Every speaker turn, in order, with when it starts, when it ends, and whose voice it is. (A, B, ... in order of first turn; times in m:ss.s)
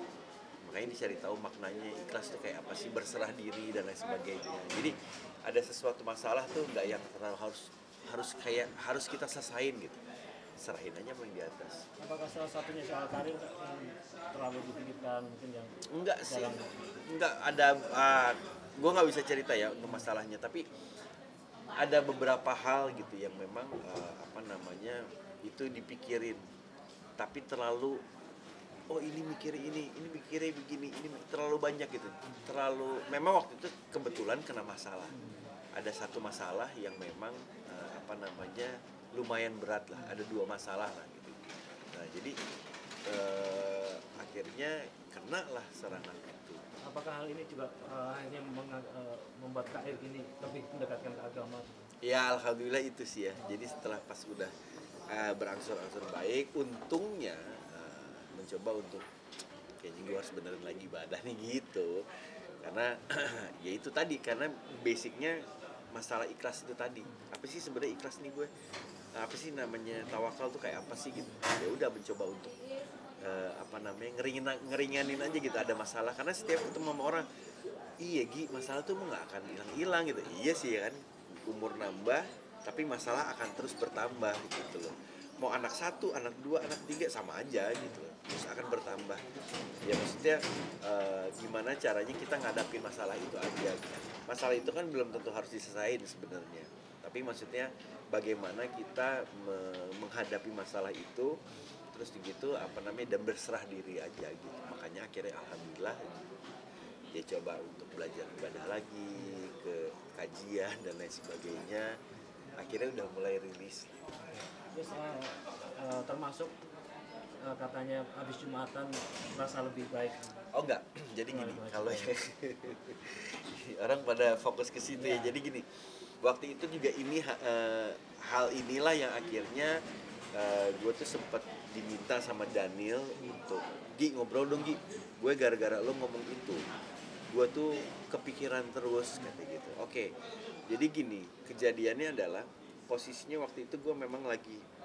0:00.6-0:10.0 A
0:10.6-0:11.8 A
0:12.0-0:16.8 B
0:15.9-0:16.6 A
0:17.1-0:20.7 A
0:21.8-0:26.4 A
0:27.2-0:28.0 A
0:28.9-0:35.2 A
0:35.2-0:35.5 B
0:35.8-0:42.4 A
0:43.0-0:46.6 A
0:46.8-0:51.9 B
0:52.0-0:54.5 A
0:55.1-0:59.1 A
0:59.8-1:02.1 A
1:02.6-1:05.4 A
1:05.9-1:08.5 A
1:09.2-1:12.6 A
1:13.2-1:17.3 A
1:18.0-1:29.2 A
1:29.8-1:41.3 A
1:41.9-1:46.4 A
1:47.1-1:52.0 A
1:52.6-1:54.0 A
1:54.7-1:56.5 B
1:57.4-2:00.4 B
2:00.5-2:05.7 A
2:01.3-2:02.1 B
2:05.0-2:05.4 B
2:06.2-2:09.8 A
2:10.3-2:16.6 A
2:17.3-2:20.1 A
2:20.7-2:24.6 A